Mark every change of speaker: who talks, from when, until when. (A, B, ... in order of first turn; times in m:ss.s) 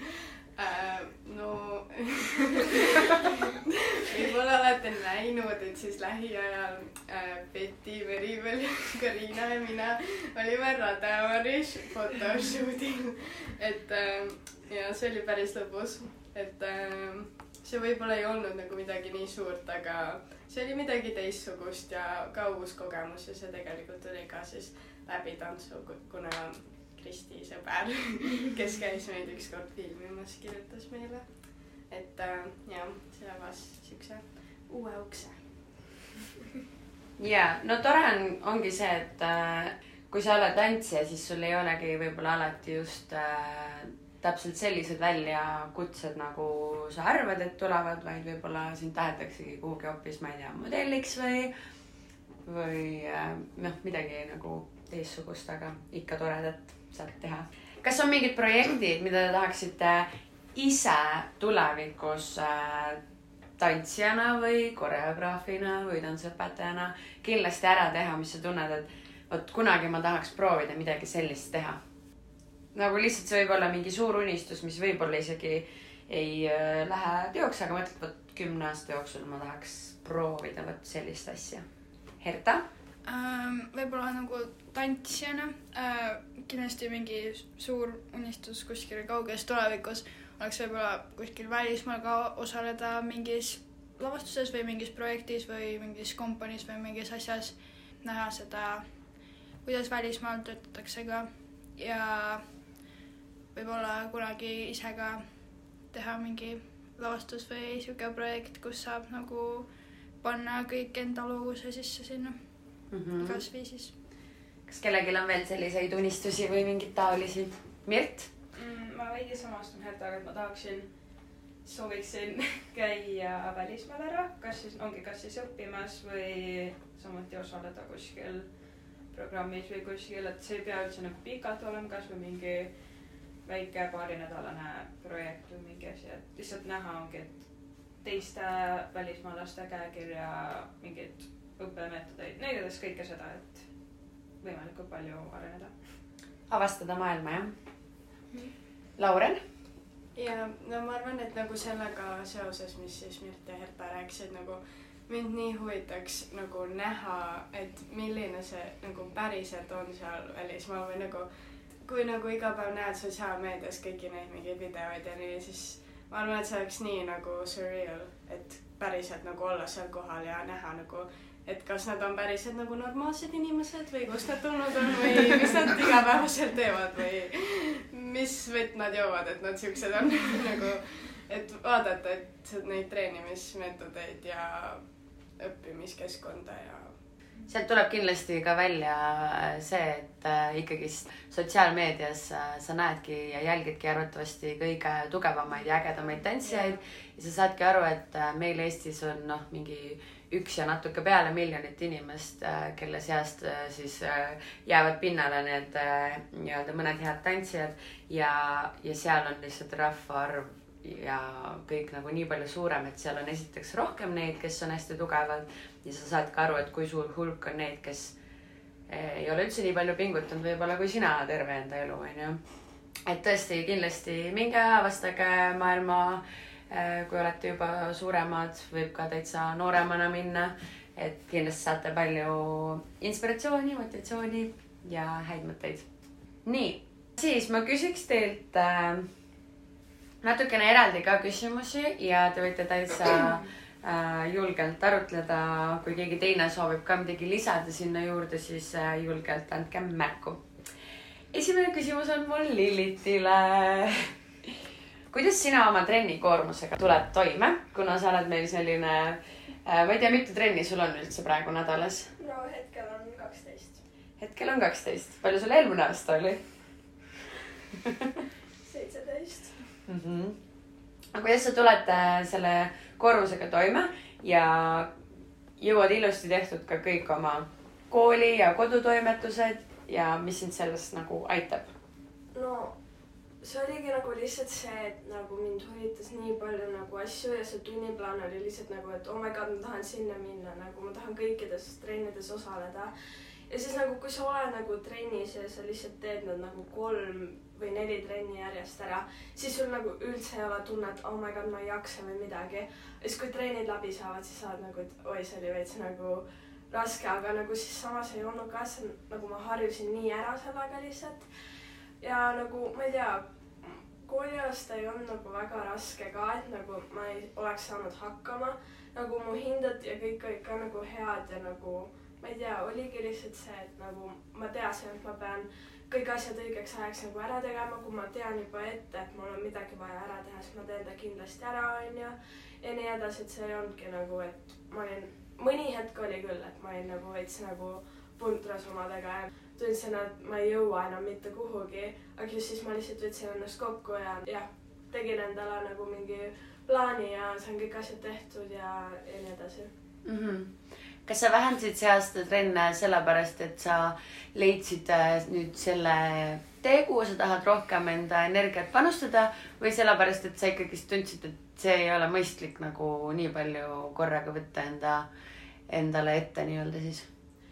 0:00.6-0:35.8 A
0:37.2-0:51.5 B
0:52.4-1:03.0 B
1:03.6-1:11.8 B
1:12.7-1:21.7 B
1:22.2-1:22.6 B
1:23.0-1:39.0 C
1:39.6-1:42.6 C
1:43.5-1:53.9 C
1:52.9-1:53.4 B
1:54.7-1:58.3 B
1:58.6-2:26.0 D
2:26.5-2:27.5 B
2:29.0-2:29.4 B
2:30.2-3:04.8 A
3:05.4-3:07.0 A
3:07.5-3:38.2 B
3:38.9-3:42.4 B
3:43.1-3:55.9 B
3:56.4-3:59.1 B
4:00.2-4:10.5 B
4:11.3-4:14.5 B
4:15.1-4:22.1 B
4:22.2-4:23.8 E
4:24.2-4:26.4 B
4:28.6-4:29.7 E
4:29.9-4:30.4 B
4:31.1-4:34.9 B
4:35.6-4:41.7 B
4:42.3-4:42.8 E
4:43.4-4:52.9 E
4:53.5-5:11.3 E
5:12.0-5:49.7 E
5:50.0-6:05.1 B
6:05.7-6:07.1 B